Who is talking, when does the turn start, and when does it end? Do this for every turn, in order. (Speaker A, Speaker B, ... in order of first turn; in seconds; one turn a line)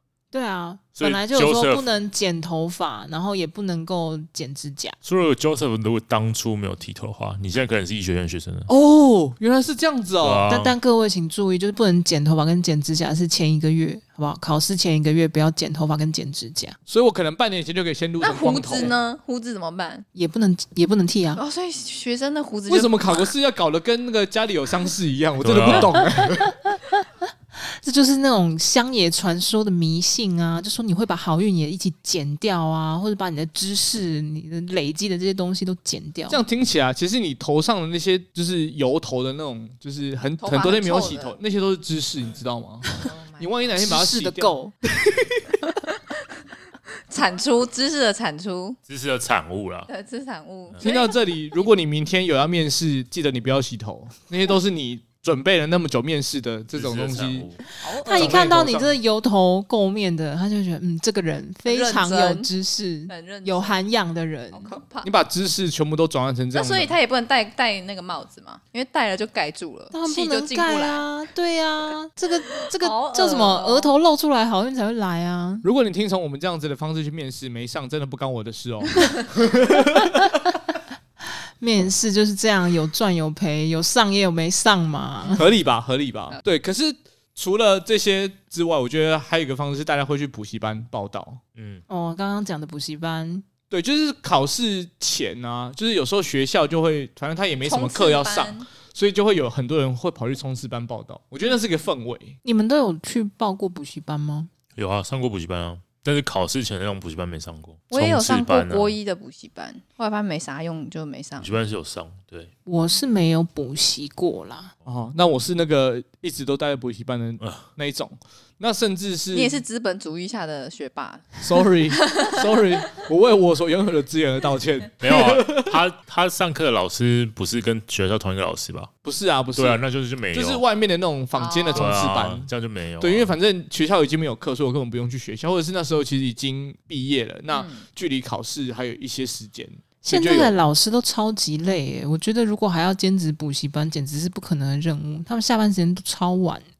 Speaker A: 0.3-5.0
Speaker B: 1.0-1.9
Speaker B: 5.0-8.7
Speaker C: 8.7-10.5
Speaker B: 10.2-10.8
Speaker A: 10.5-16.8
Speaker C: 16.9-18.9
Speaker D: 18.2-20.1
Speaker A: 20.1-21.4
Speaker D: 21.4-23.3
Speaker C: 22.7-26.6
Speaker B: 25.4-26.1
Speaker A: 26.2-36.4
Speaker C: 36.3-45.6
Speaker D: 40.4-41.4
Speaker D: 43.0-43.7
Speaker A: 43.8-44.7
Speaker D: 45.7-46.0
Speaker D: 47.1-48.8
Speaker B: 48.9-49.9
Speaker D: 49.9-51.1
Speaker C: 50.8-57.5
Speaker B: 56.7-57.6
Speaker D: 57.8-58.5
Speaker A: 57.9-64.7
Speaker C: 58.0-59.0
Speaker D: 61.7-62.5
Speaker D: 63.1-63.8
Speaker D: 64.5-65.1
Speaker C: 65.0-67.0
Speaker D: 66.5-71.1
Speaker A: 69.9-75.7
Speaker D: 72.8-73.9
Speaker C: 75.6-80.4
Speaker A: 81.6-85.4
Speaker C: 85.3-91.4
Speaker B: 91.5-91.8
Speaker A: 91.9-93.5
Speaker C: 93.7-102.4
Speaker D: 97.6-98.7
Speaker A: 102.4-104.5
Speaker B: 104.8-109.0
Speaker D: 107.9-111.5
Speaker B: 111.4-112.5
Speaker A: 112.7-114.7
Speaker C: 114.9-119.6
Speaker B: 117.4-117.7
Speaker D: 119.3-122.5
Speaker C: 121.4-125.8
Speaker B: 125.0-128.9
Speaker C: 129.1-129.8
Speaker B: 129.6-130.6
Speaker C: 130.3-132.5
Speaker D: 131.4-132.1
Speaker B: 131.7-133.3
Speaker C: 133.0-140.6
Speaker D: 137.5-137.9
Speaker A: 140.0-146.7